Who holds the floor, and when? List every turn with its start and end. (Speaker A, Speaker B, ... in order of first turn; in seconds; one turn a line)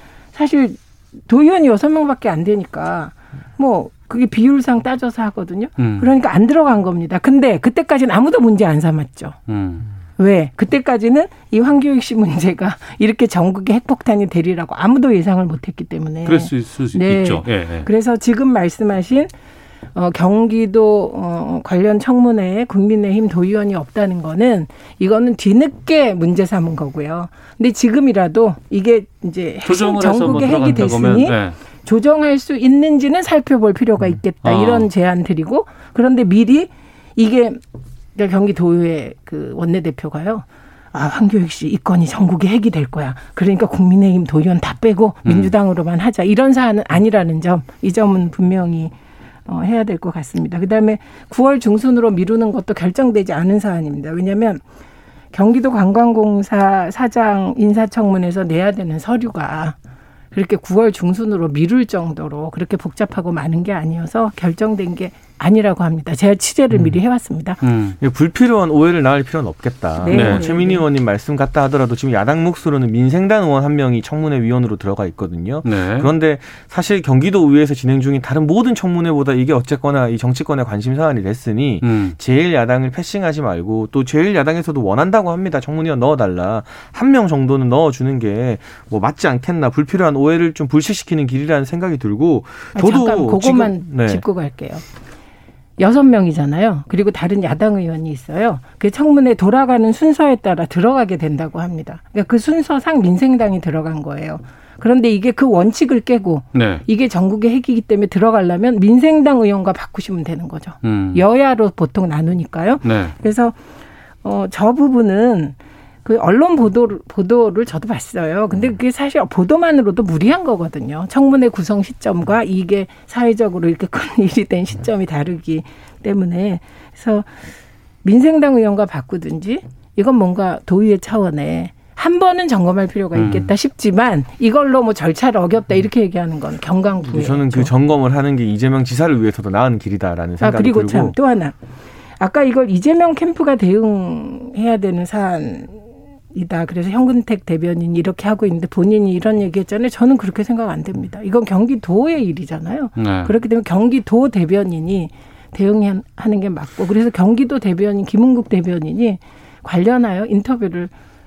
Speaker A: 0.3-9.4
Speaker B: 5.8-6.1
Speaker B: 9.5-9.9
Speaker A: 10.2-19.3
Speaker B: 16.2-17.9
Speaker A: 19.9-37.6
Speaker B: 29.6-31.6
Speaker B: 34.4-34.9
Speaker A: 38.1-48.9
Speaker B: 45.2-45.5
Speaker A: 49.5-54.6
Speaker A: 55.3-59.7
Speaker A: 60.3-67.6
Speaker C: 66.7-67.0
Speaker B: 67.6-68.0
Speaker C: 68.0-94.2
Speaker A: 70.0-70.8
Speaker B: 70.1-70.5
Speaker B: 75.6-76.1
Speaker B: 81.8-82.2
Speaker A: 92.7-94.8
Speaker A: 95.8-113.6
Speaker B: 106.5-106.8
Speaker B: 110.8-111.2
Speaker B: 112.8-113.2
Speaker A: 114.2-127.3
Speaker A: 128.0-137.7
Speaker B: 133.1-133.5
Speaker C: 137.1-141.2
Speaker A: 140.4-141.6
Speaker A: 142.2-160.9
Speaker B: 153.0-153.3